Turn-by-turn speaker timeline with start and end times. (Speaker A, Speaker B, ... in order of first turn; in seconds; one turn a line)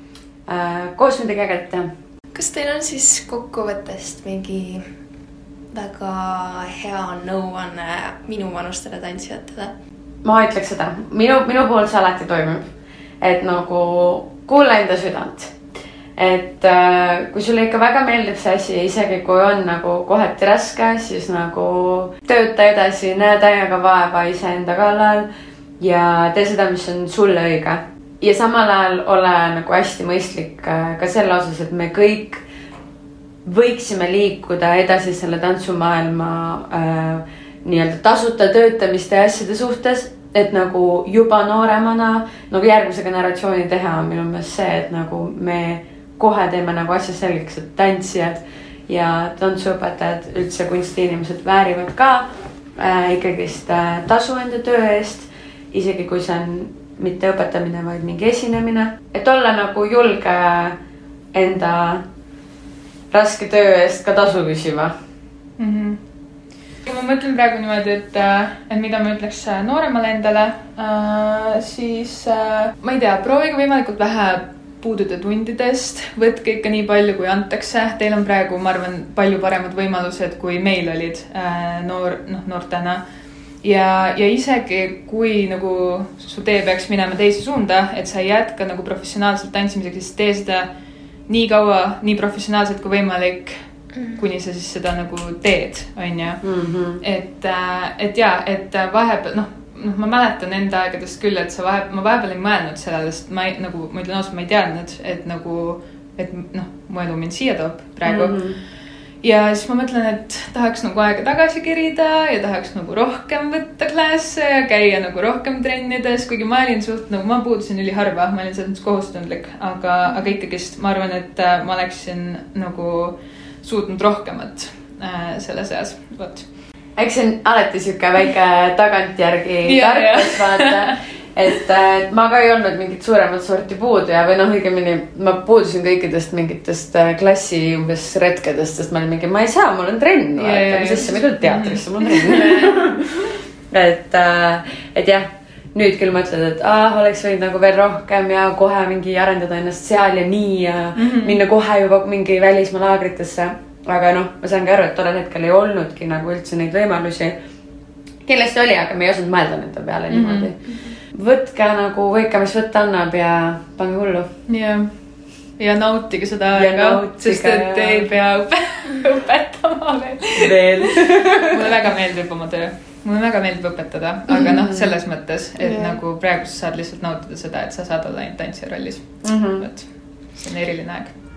Speaker A: 0.5-1.9
Speaker B: 2.3-4.8
Speaker B: 5.7-9.7
Speaker A: 10.2-12.7
Speaker A: 13.2-15.6
Speaker A: 16.2-25.3
Speaker A: 25.8-32.4
Speaker A: 33.5-60.8
Speaker A: 61.3-62.0
Speaker A: 63.1-64.9
Speaker C: 65.6-66.0
Speaker C: 66.8-83.0
Speaker C: 83.6-90.7
Speaker C: 91.3-93.5
Speaker C: 94.1-96.4
Speaker A: 96.4-97.0
Speaker C: 97.0-108.4
Speaker A: 108.0-108.6
Speaker C: 109.2-126.5
Speaker A: 127.0-143.1
Speaker C: 129.6-131.0
Speaker C: 140.4-143.3
Speaker A: 143.7-157.4
Speaker C: 151.0-151.4
Speaker A: 158.2-164.3
Speaker C: 160.1-160.5
Speaker C: 164.5-164.9
Speaker C: 165.6-181.2
Speaker A: 166.5-168.1
Speaker A: 170.4-171.7
Speaker A: 174.3-175.0
Speaker B: 175.6-176.0
Speaker A: 179.2-179.7